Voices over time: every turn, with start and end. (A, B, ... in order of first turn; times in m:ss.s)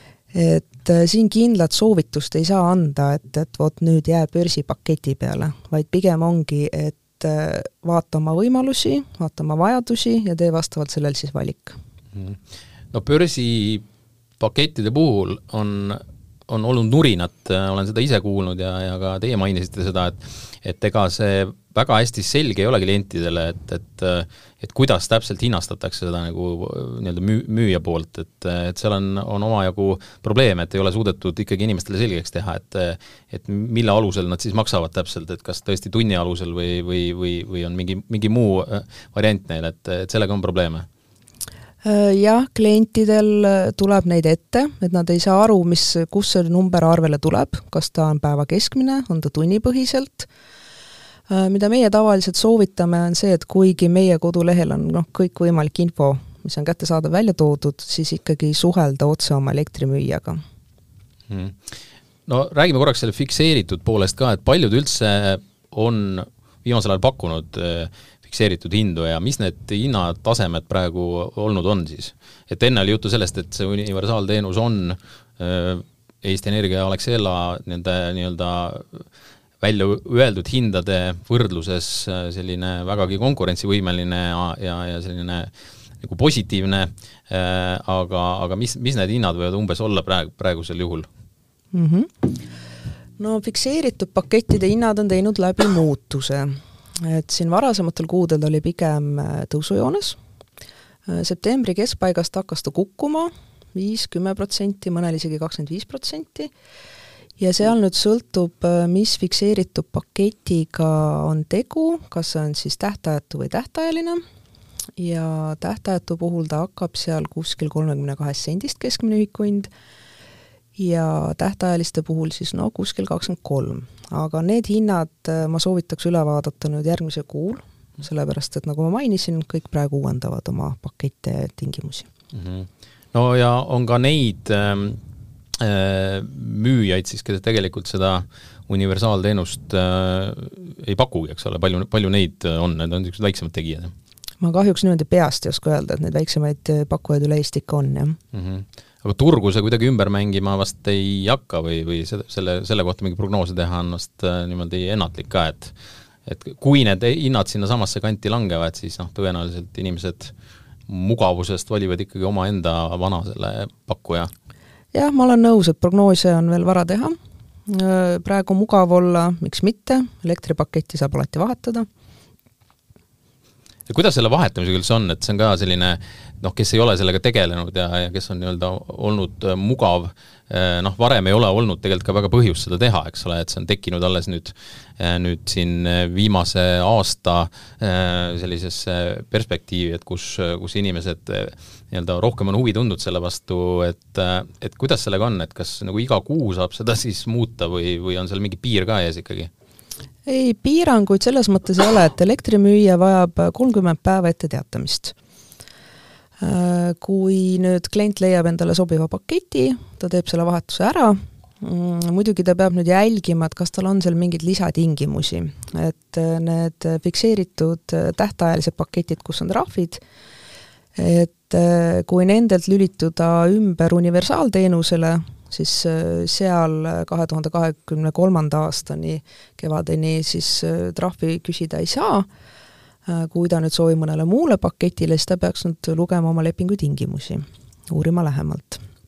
0:00.3-0:11.8 A
0:12.9-0:13.8 B
0:14.4-0:40.8 B
0:41.8-0:50.3 A
0:51.3-1:00.4 A
1:01.3-1:01.6 B
1:02.3-1:19.0 B
1:19.6-1:31.1 B
1:31.7-1:32.4 A
1:33.2-1:40.2 A
1:41.1-1:46.5 A
1:47.4-1:54.2 A
1:55.0-1:59.7 A
2:00.8-2:12.1 A
2:12.3-2:15.0 B
2:15.6-2:23.9 B
2:24.4-2:28.2 A
2:28.3-2:35.7 B
2:36.3-2:40.3 B
2:40.9-2:44.3 B
2:44.9-2:47.2 A
2:47.7-2:51.9 A
2:53.9-3:19.5 B
3:20.3-3:25.2 A
3:26.4-3:40.0 A
3:41.0-3:52.3 A
3:53.1-3:58.8 A